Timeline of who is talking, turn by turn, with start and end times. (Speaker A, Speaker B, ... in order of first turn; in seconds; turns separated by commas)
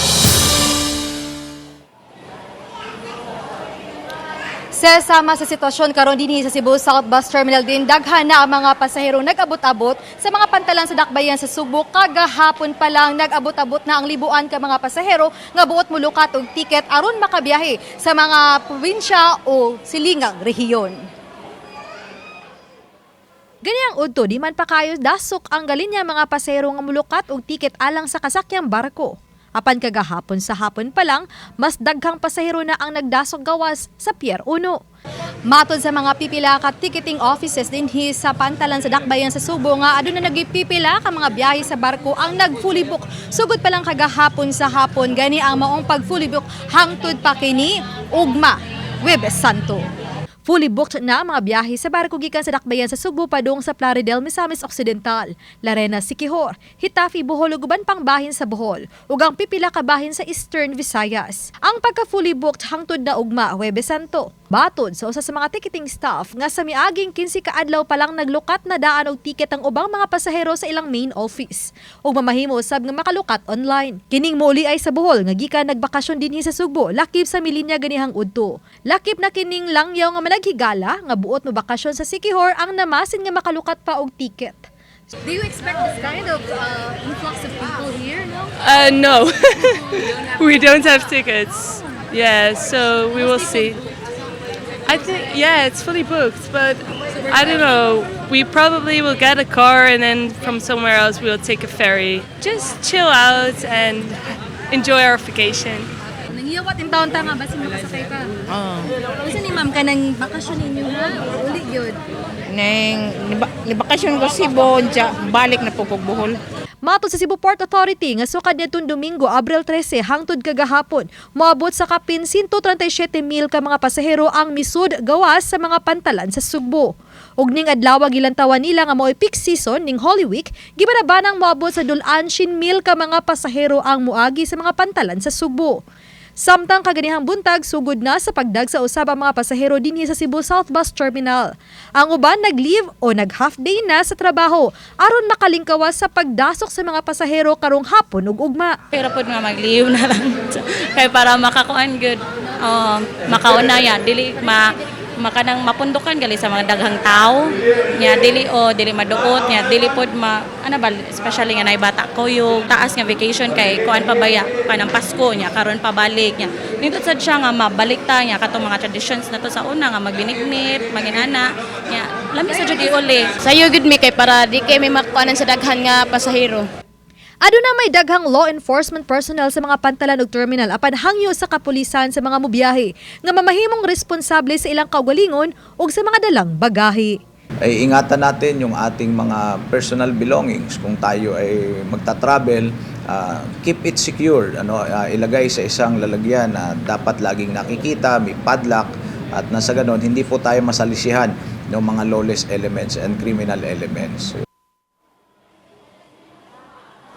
Speaker A: 4.7-21.0, Speaker A: 23.6-34.8, Speaker A: 35.5-49.9, Speaker A: 50.5-84.7, Speaker A: 85.2-88.4, Speaker B: 88.6-93.8, Speaker B: 94.9-104.2, Speaker B: 104.7-105.9, Speaker A: 106.3-108.3, Speaker C: 108.5-108.9, Speaker A: 109.2-112.0, Speaker C: 112.5-116.4, Speaker A: 116.8-135.8, Speaker A: 136.4-148.8, Speaker D: 148.9-173.3, Speaker E: 173.4-176.7, Speaker A: 177.4-187.2, Speaker F: 187.7-204.4